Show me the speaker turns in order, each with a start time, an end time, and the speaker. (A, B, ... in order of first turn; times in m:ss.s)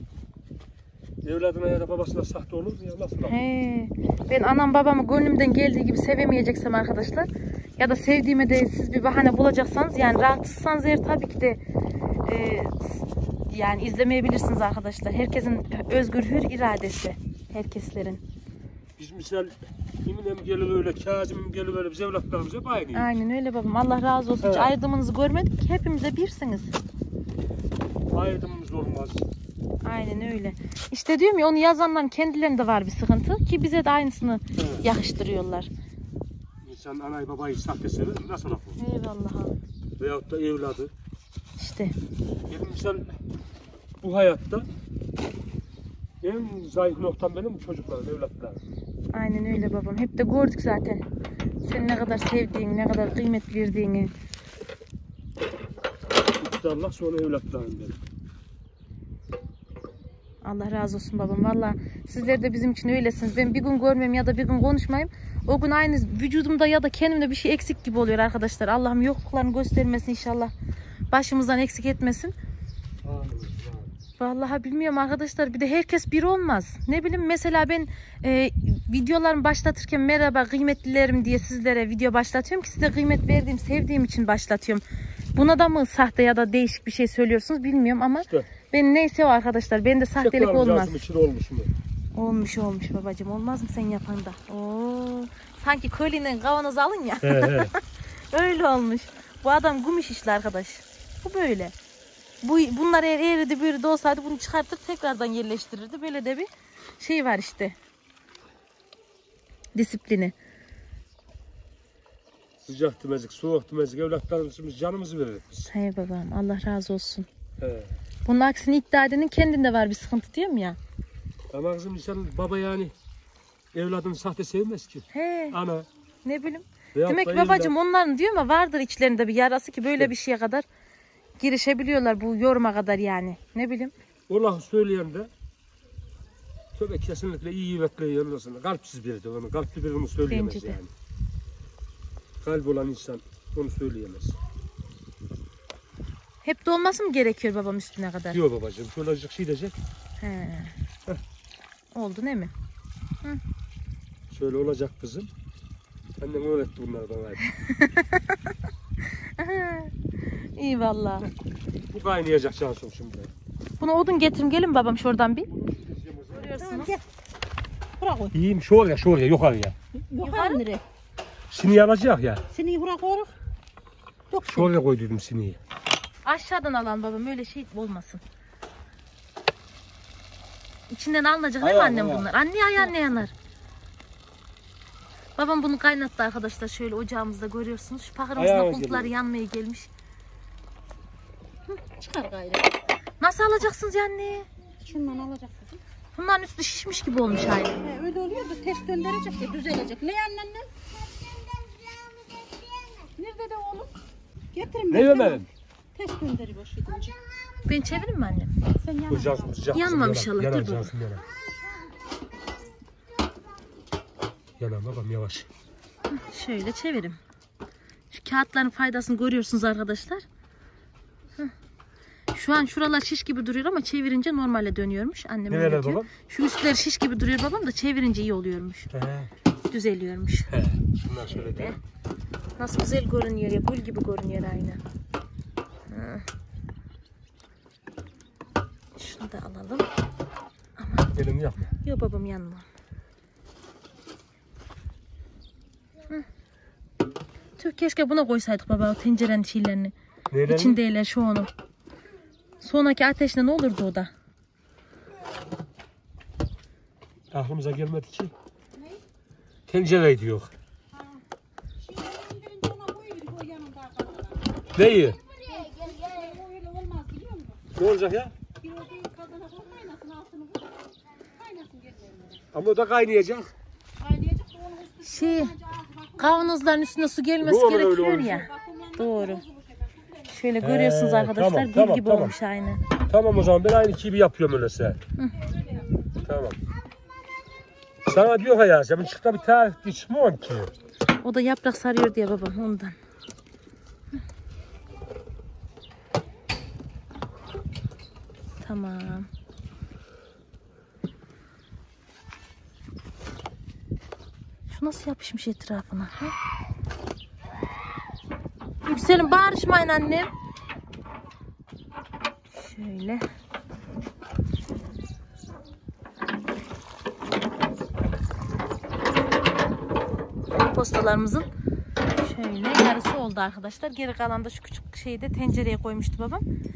0:01.2-0:03.4 A
0:03.3-0:11.6 B
0:12.2-0:18.2 B
0:19.0-0:23.1 A
0:22.9-0:26.7 B
0:24.4-0:24.7 A
0:28.1-0:29.2 A
0:29.8-0:35.7 B
0:34.6-0:34.9 A
0:36.6-0:38.8 A
0:38.8-0:39.6 B
0:40.0-0:40.9 A
0:41.6-0:41.9 B
0:42.5-0:43.1 A
0:44.0-0:44.7 A
0:46.2-0:48.6 A
0:49.1-0:51.0 B
0:51.6-0:54.1 B
0:56.4-0:58.0 A
1:00.4-1:10.5 B
1:11.1-1:12.3 B
1:13.0-1:13.9 A
1:14.2-1:24.8 B
1:25.3-1:31.0 B
1:30.2-1:31.7 A
1:32.1-1:41.7 B
1:37.2-1:37.7 A
1:42.4-1:47.8 B
1:49.7-1:50.3 B
1:52.6-1:55.7 A
1:55.7-1:57.3 B
1:57.6-1:57.9 A
1:58.2-2:00.8 B
2:01.5-2:02.9 A
2:03.7-2:05.9 A
2:05.1-2:05.6 B
2:06.2-2:10.6 B
2:06.9-2:07.7 A
2:11.4-2:13.9 B
2:14.3-2:15.3 A
2:16.7-2:20.9 A
2:20.3-2:20.8 B
2:22.4-2:24.4 A
2:26.4-2:28.4 B
2:28.3-2:29.7 A
2:30.2-2:30.7 B
2:31.9-2:32.5 B
2:34.3-2:35.3 A
2:36.2-2:37.5 A
2:37.5-2:38.4 B
2:39.4-2:39.9 B
2:40.6-2:41.3 B
2:41.9-2:43.3 A
2:43.8-2:45.5 B
2:45.5-2:46.7 A
2:46.3-2:47.0 B
2:46.6-2:47.0 C
2:48.0-2:48.4 C
2:48.3-2:49.7 A
2:50.0-2:50.8 C
2:50.2-2:50.6 B
2:51.5-2:52.4 A
2:52.5-2:53.3 C
2:54.3-2:54.7 C
2:54.4-2:55.6 A
2:56.2-2:58.2 B
3:00.9-3:03.3 B
3:01.6-3:02.3 A
3:05.4-3:09.9 B
3:08.4-3:09.1 A
3:11.6-3:12.8 C
3:13.2-3:14.5 B
3:14.8-3:15.8 C
3:16.2-3:17.8 B
3:17.8-3:24.0 C
3:24.5-3:27.2 C
3:24.9-3:25.5 A
3:27.7-3:28.5 B
3:28.8-3:29.8 C
3:29.1-3:31.2 A
3:29.7-3:30.9 B
3:34.6-3:35.5 A
3:36.1-3:37.2 B
3:38.1-3:40.2 B
3:42.3-3:48.9 B
3:45.5-3:46.1 A
3:48.9-3:49.3 A
3:49.7-3:50.5 B
3:50.5-3:51.8 A
3:51.2-3:51.8 B
3:52.6-3:54.8 B
3:55.9-3:56.2 B
3:58.9-3:59.9 B
4:00.8-4:01.1 B
4:01.1-4:01.7 A
4:01.8-4:02.6 B
4:07.6-4:09.9 B
4:10.3-4:10.8 A
4:10.5-4:11.5 B
4:12.6-4:14.1 B
4:17.3-4:18.3 A
4:19.7-4:20.5 A
4:20.9-4:21.2 C
4:21.8-4:27.7 C
4:24.7-4:25.2 A
4:27.8-4:28.3 A
4:28.6-4:32.4 C
4:32.5-4:33.5 A
4:34.0-4:36.5 C
4:35.0-4:35.5 B
4:36.2-4:39.4 B
4:37.4-4:38.4 A
4:38.2-4:40.1 C
4:40.3-4:42.8 B
4:40.6-4:42.3 A
4:43.1-4:45.0 A
4:45.2-4:45.5 B
4:45.4-4:46.1 C
4:46.2-4:46.6 A
4:48.0-4:50.7 A
4:51.2-4:52.9 B
4:58.6-4:59.3 B
5:04.7-5:06.3 B
5:08.8-5:10.3 B
5:12.5-5:13.2 B
5:20.5-5:21.5 B
5:22.2-5:26.4 B